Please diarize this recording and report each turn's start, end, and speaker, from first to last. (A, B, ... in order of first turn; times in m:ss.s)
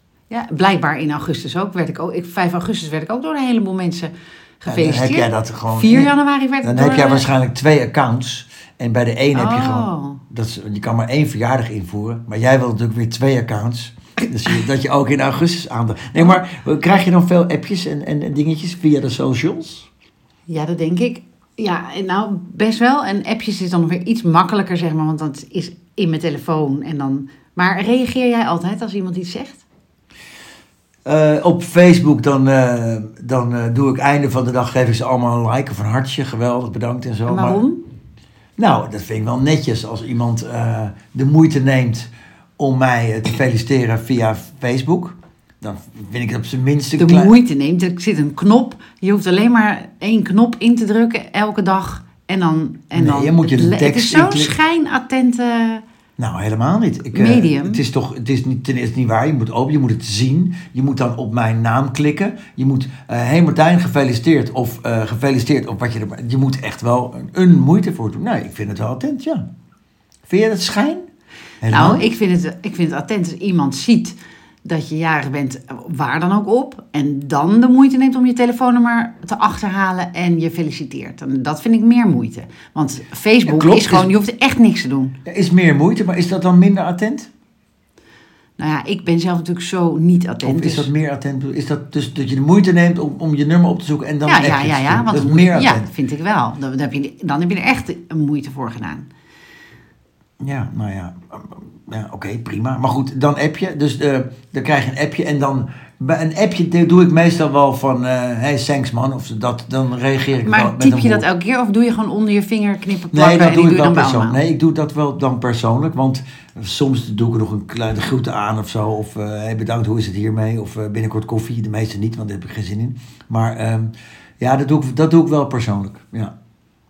0:00.3-0:07.3 A
0:04.7-0:19.9 B
0:09.3-0:10.2 A
0:20.5-0:29.6 A
0:31.1-0:37.6 B
0:37.3-0:37.8 A
0:38.6-0:47.3 B
0:47.0-0:55.8 A
0:52.9-0:54.5 B
0:56.2-1:09.5 B
0:57.1-0:57.8 A
1:10.3-1:11.1 B
1:11.6-1:12.0 B
1:11.7-1:25.2 A
1:23.4-1:24.1 B
1:25.2-1:27.3 B
1:28.6-1:30.9 A
1:30.4-1:35.9 B
1:34.3-1:39.1 A
1:40.4-1:51.2 B
1:50.4-1:54.4 A
1:53.1-2:06.3 B